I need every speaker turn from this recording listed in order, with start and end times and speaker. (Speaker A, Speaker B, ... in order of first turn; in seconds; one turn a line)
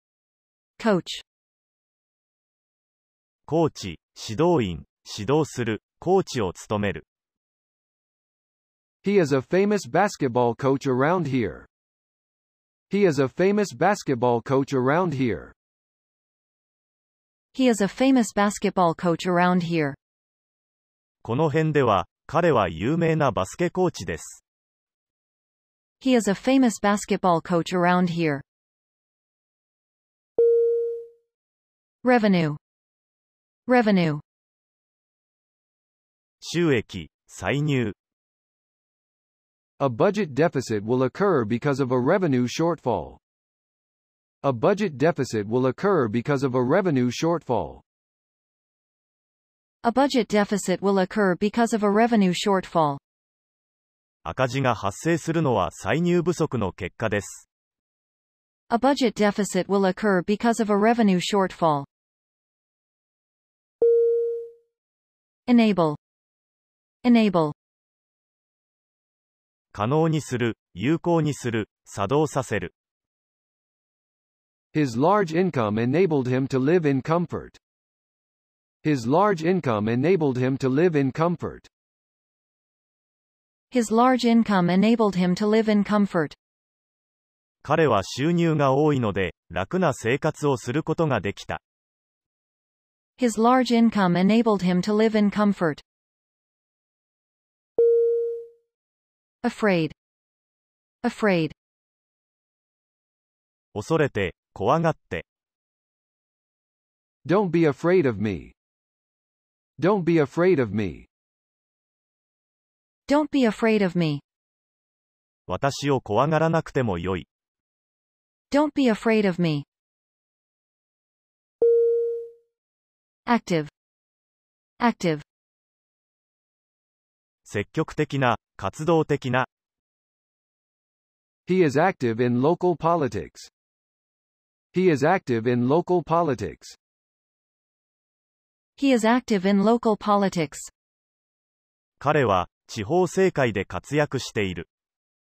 Speaker A: 0.8-1.2
Speaker B: 3.5-7.0
Speaker C: 9.0-11.7
Speaker C: 12.9-15.6
Speaker A: 17.5-20.0
Speaker B: 21.2-24.4
Speaker A: 26.0-28.4
Speaker A: 32.0-32.6
Speaker A: 33.7-34.2
Speaker B: 36.4-38.0
Speaker C: 39.8-43.2
Speaker C: 44.4-47.8
Speaker A: 49.8-53.0
Speaker B: 54.2-57.5
Speaker A: 58.7-61.9
Speaker A: 65.5-66.0
Speaker A: 67.0-67.5
Speaker B: 69.7-72.7
Speaker C: 74.7-77.6
Speaker C: 78.8-81.7
Speaker A: 83.7-86.4
Speaker B: 87.6-91.6
Speaker A: 93.2-95.8
Speaker A: 99.4-99.9
Speaker A: 101.0-101.5
Speaker B: 103.7-105.2
Speaker C: 107.3-108.5
Speaker C: 109.8-111.1
Speaker A: 113.1-114.2
Speaker B: 115.5-117.3
Speaker A: 118.5-119.7
Speaker A: 123.3-123.7
Speaker A: 124.8-125.2
Speaker B: 127.5-129.5
Speaker C: 131.5-133.5
Speaker C: 134.7-136.8
Speaker A: 138.8-140.7
Speaker B: 142.0-144.7